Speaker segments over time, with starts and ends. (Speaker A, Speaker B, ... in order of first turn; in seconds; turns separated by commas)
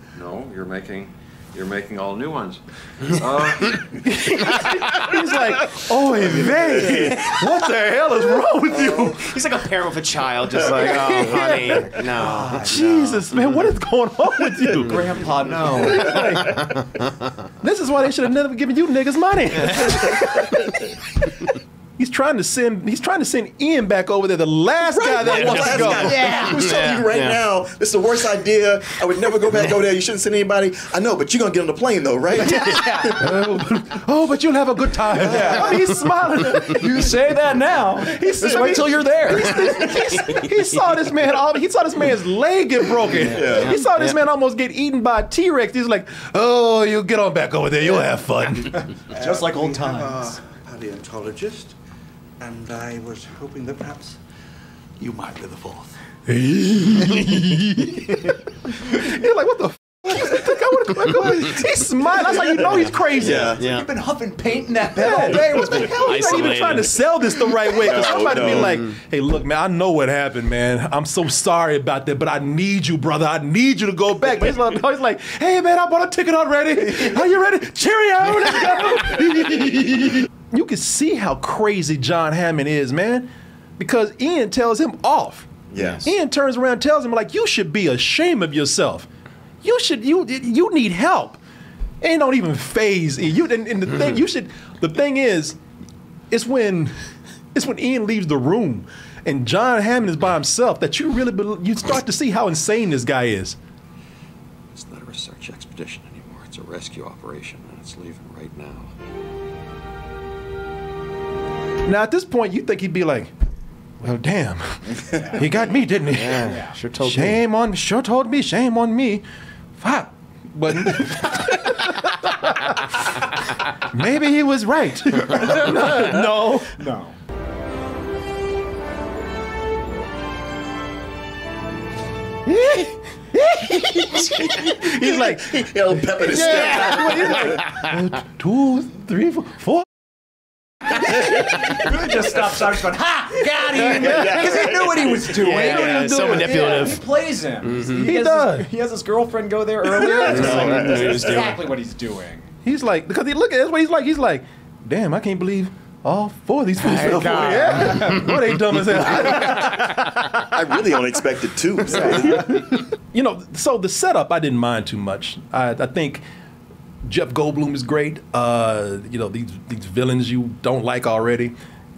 Speaker A: 0.2-4.0, Speaker B: 4.0-9.3, Speaker C: 9.2-12.6, Speaker B: 10.7-12.0, Speaker D: 12.2-13.2, Speaker B: 12.6-15.0, Speaker D: 14.8-16.2, Speaker B: 16.0-16.7, Speaker B: 17.6-21.4, Speaker B: 22.0-26.3, Speaker E: 24.9-33.4, Speaker C: 25.2-27.4, Speaker D: 25.9-26.5, Speaker D: 32.5-33.1, Speaker B: 32.6-37.1, Speaker E: 35.2-35.6, Speaker D: 35.2-35.8, Speaker D: 36.7-40.0, Speaker B: 38.1-48.9, Speaker E: 38.4-38.8, Speaker E: 43.2-43.8, Speaker C: 43.2-44.2, Speaker D: 48.7-50.4, Speaker F: 49.1-51.7, Speaker F: 52.4-54.2, Speaker F: 55.0-55.9, Speaker B: 56.3-63.5, Speaker C: 62.7-63.9, Speaker E: 63.2-63.6, Speaker D: 63.6-66.6, Speaker B: 65.0-85.5, Speaker C: 65.3-67.0, Speaker E: 67.7-68.8, Speaker C: 68.4-68.9, Speaker E: 85.7-86.1, Speaker C: 85.8-86.0, Speaker B: 86.0-89.1, Speaker B: 89.6-91.4, Speaker B: 92.0-95.6, Speaker B: 96.3-96.9, Speaker B: 97.5-103.6, Speaker A: 104.7-108.9, Speaker B: 111.8-113.3, Speaker B: 114.0-119.2, Speaker E: 115.1-115.7, Speaker D: 115.1-115.5, Speaker C: 116.1-117.4, Speaker D: 116.5-116.8, Speaker B: 119.8-126.7, Speaker E: 125.5-126.2, Speaker D: 126.8-127.2, Speaker B: 132.5-139.9, Speaker E: 134.8-137.6, Speaker C: 136.4-137.7, Speaker D: 141.0-152.5, Speaker B: 143.8-144.5, Speaker E: 143.9-145.2, Speaker C: 145.3-147.0, Speaker B: 145.3-147.0, Speaker C: 147.6-148.1, Speaker B: 148.0-148.7, Speaker B: 149.9-150.8, Speaker E: 150.0-151.5, Speaker C: 150.3-151.6, Speaker B: 152.6-160.4, Speaker C: 156.8-159.4, Speaker E: 160.5-162.5, Speaker D: 161.9-162.2, Speaker B: 162.0-166.2, Speaker B: 167.1-171.5